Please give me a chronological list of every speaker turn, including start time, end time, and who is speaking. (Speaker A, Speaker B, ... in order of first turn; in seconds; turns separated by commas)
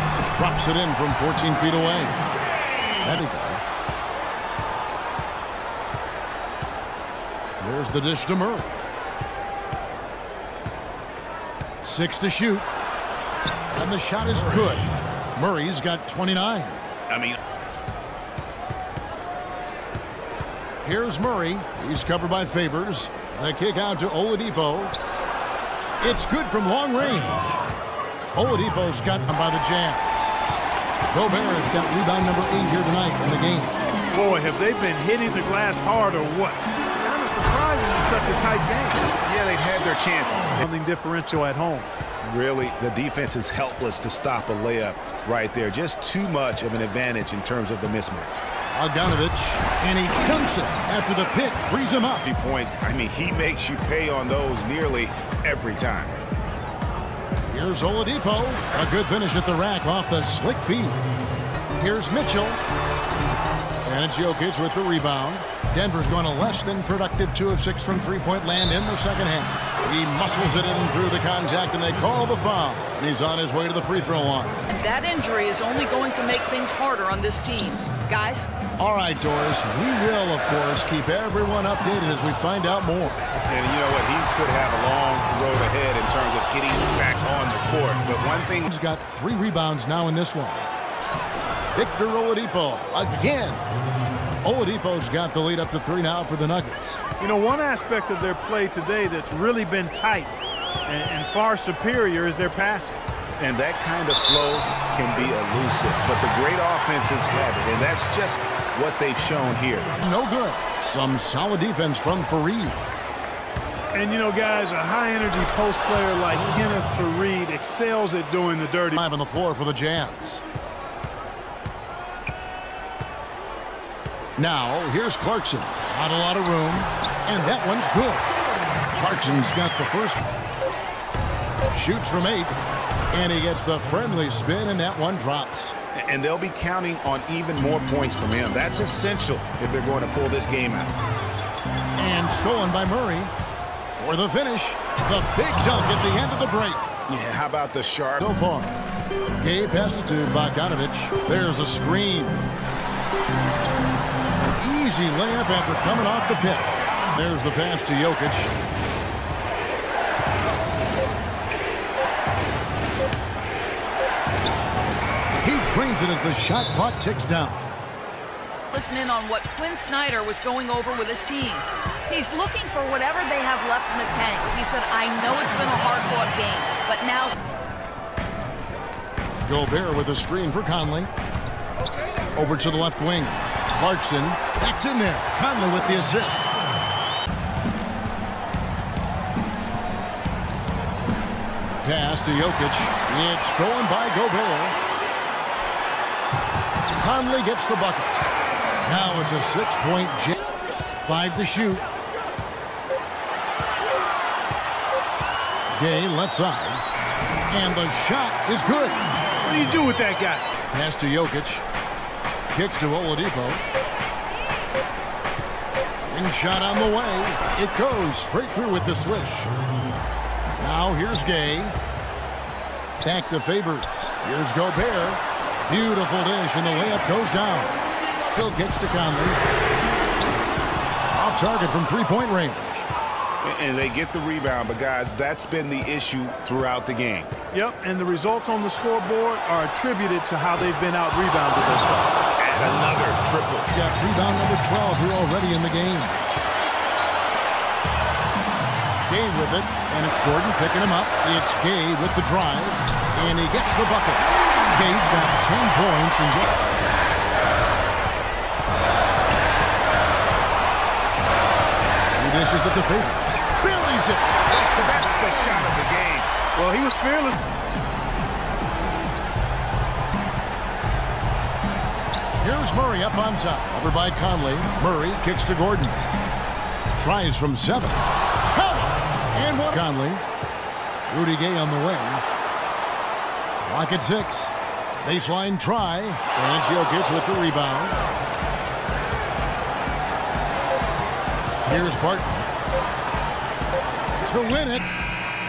Speaker A: 0.3-2.2, Speaker A: 3.0-3.6, Speaker A: 7.6-8.7, Speaker A: 11.8-12.7, Speaker A: 13.7-16.8, Speaker B: 17.1-17.4, Speaker A: 20.8-24.9, Speaker A: 26.0-27.6, Speaker A: 28.3-30.3, Speaker A: 31.1-33.7, Speaker C: 34.1-39.0, Speaker B: 39.2-40.6, Speaker C: 40.6-41.9, Speaker B: 42.2-48.4, Speaker A: 48.7-52.2, Speaker B: 52.2-56.2, Speaker A: 57.5-61.0, Speaker A: 61.8-62.6, Speaker A: 63.8-74.6, Speaker D: 74.7-78.5, Speaker A: 78.8-83.2, Speaker B: 83.5-88.7, Speaker A: 88.7-90.7, Speaker A: 91.7-93.6, Speaker A: 94.4-97.0, Speaker C: 97.2-100.3, Speaker C: 100.8-103.0, Speaker B: 103.4-109.9, Speaker A: 110.0-112.8, Speaker C: 113.9-119.0, Speaker A: 119.0-120.4, Speaker A: 124.4-128.3, Speaker A: 128.9-130.3, Speaker A: 131.7-132.6, Speaker A: 133.1-135.7, Speaker B: 135.9-140.9, Speaker A: 141.9-143.3, Speaker A: 144.0-146.8, Speaker B: 147.1-148.3, Speaker A: 148.2-148.7, Speaker A: 149.4-152.4, Speaker A: 154.4-158.5, Speaker A: 165.4-167.7, Speaker D: 168.7-177.3, Speaker A: 179.4-181.1, Speaker A: 182.3-186.5, Speaker A: 191.8-194.8, Speaker A: 196.9-198.3, Speaker A: 198.8-200.4, Speaker A: 201.0-201.8, Speaker A: 205.7-206.8, Speaker A: 207.5-209.0, Speaker C: 209.4-210.4, Speaker A: 210.7-211.6, Speaker A: 212.5-213.6, Speaker A: 216.0-219.5, Speaker A: 220.6-221.7, Speaker A: 223.0-229.4, Speaker A: 231.1-232.8, Speaker B: 233.4-237.3, Speaker C: 237.5-242.2, Speaker B: 242.4-243.7, Speaker A: 243.7-246.2, Speaker A: 249.1-256.5, Speaker A: 262.1-264.4, Speaker B: 264.5-266.3, Speaker C: 266.5-267.4, Speaker A: 272.4-276.0, Speaker A: 276.9-280.2, Speaker A: 281.1-282.2, Speaker A: 283.6-288.0, Speaker A: 291.6-292.4, Speaker A: 294.2-294.9